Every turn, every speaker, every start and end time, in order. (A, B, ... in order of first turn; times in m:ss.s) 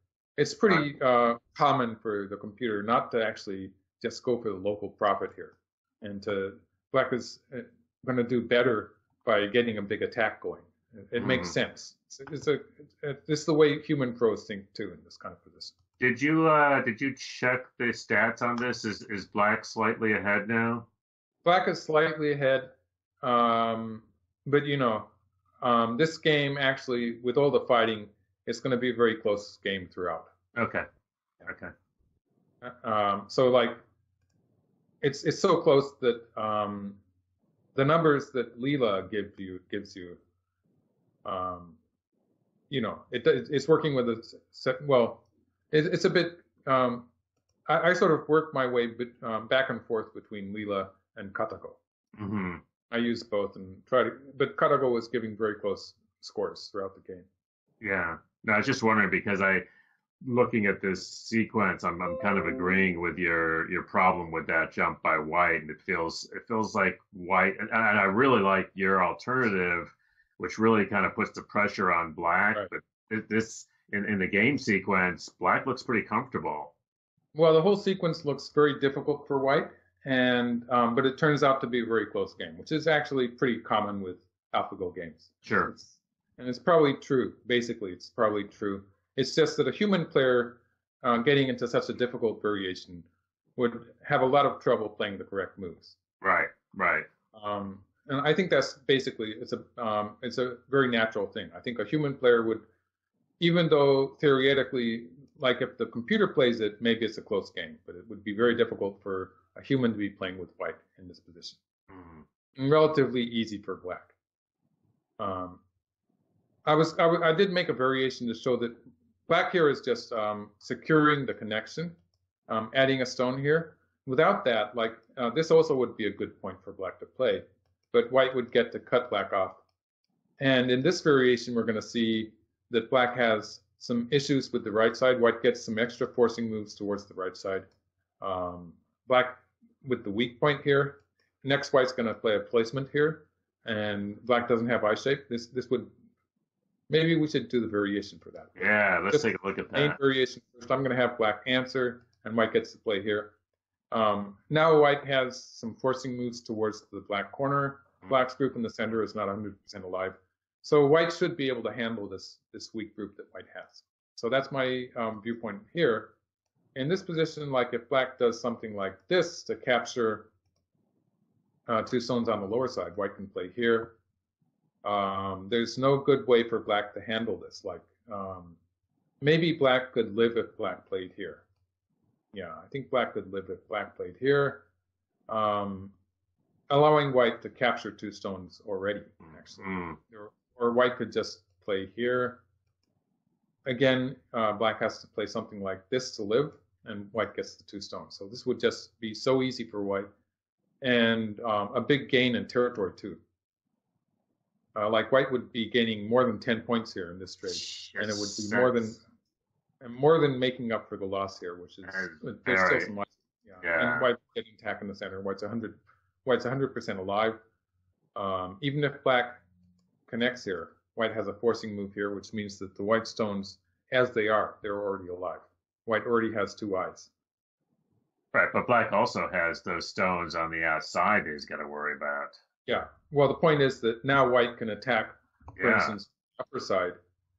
0:00.4-0:15.7 A
0:11.2-0:11.5 B
0:16.0-0:20.8 B
0:21.4-0:22.7 A
0:23.2-0:25.1 A
0:25.6-0:30.3 A
0:30.5-0:30.8 B
0:31.4-0:31.7 B
0:32.6-0:33.8 A
0:35.0-0:37.0 A
0:37.7-0:40.2 A
0:41.2-0:41.8 A
0:42.7-0:47.0 A
0:47.7-0:51.8 A
0:52.2-0:52.6 B
0:52.9-0:57.3 A
0:57.8-0:59.6 B
1:00.2-1:16.7 B
1:17.3-1:33.0 A
1:25.4-1:25.7 B
1:33.6-1:36.0 A
1:36.2-1:37.1 B
1:37.3-1:42.6 A
1:43.4-1:51.6 A
1:51.9-1:52.2 B
1:52.6-1:54.1 A
1:55.2-1:55.6 A
1:56.6-2:01.9 A
2:02.5-2:09.6 A
2:10.4-2:17.6 A
2:18.2-2:25.9 A
2:26.9-2:33.3 A
2:28.6-2:30.0 B
2:33.9-2:46.1 A
2:46.7-2:50.3 A
2:51.7-2:54.0 A
2:54.8-2:58.6 A
2:59.2-3:01.4 A
3:02.3-3:04.6 A
3:05.3-3:05.9 A
3:06.7-3:12.4 A
3:09.6-3:10.0 B
3:13.6-3:20.1 A
3:20.8-3:23.2 A
3:24.7-3:29.0 A
3:27.5-3:28.9 B
3:29.8-3:37.4 A
3:31.9-3:32.9 B
3:33.6-3:34.1 B
3:38.1-3:39.4 A
3:40.1-3:47.1 A
3:48.3-3:52.4 B
3:52.6-3:57.0 A
3:55.6-3:55.9 B